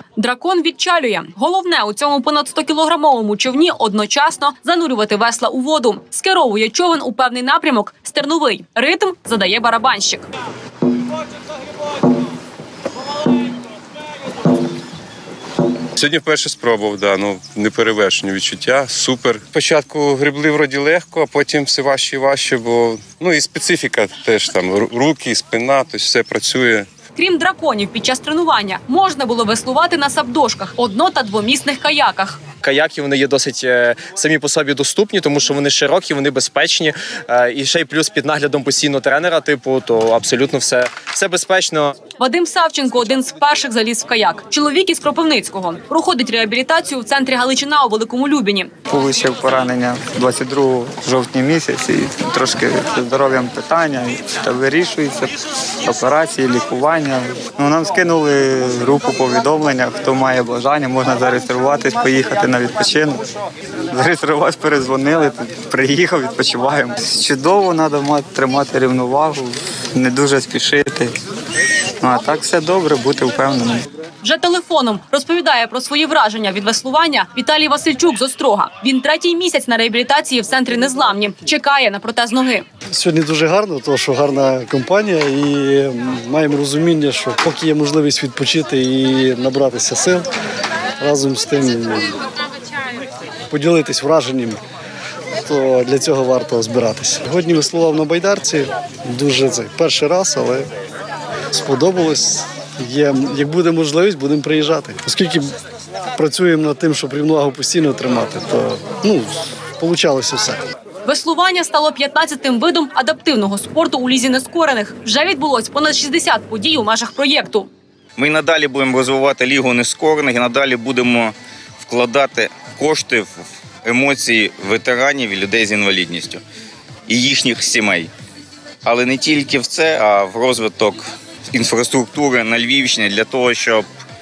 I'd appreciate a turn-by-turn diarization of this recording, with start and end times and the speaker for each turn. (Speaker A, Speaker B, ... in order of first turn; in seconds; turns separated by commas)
Speaker A: 0.2-10.3, Speaker B: 16.0-26.9, Speaker A: 27.1-32.4, Speaker C: 32.6-41.9, Speaker A: 42.2-48.7, Speaker D: 48.9-55.3, Speaker D: 55.9-63.2, Speaker D: 63.9-71.1, Speaker D: 72.0-73.8, Speaker A: 74.2-82.7, Speaker E: 82.9-90.3, Speaker E: 91.0-92.1, Speaker E: 93.5-94.6, Speaker E: 95.5-100.7, Speaker E: 101.5-105.5, Speaker E: 106.2-110.7, Speaker A: 111.1-117.7, Speaker F: 118.2-126.4, Speaker F: 127.1-128.1, Speaker F: 128.8-133.8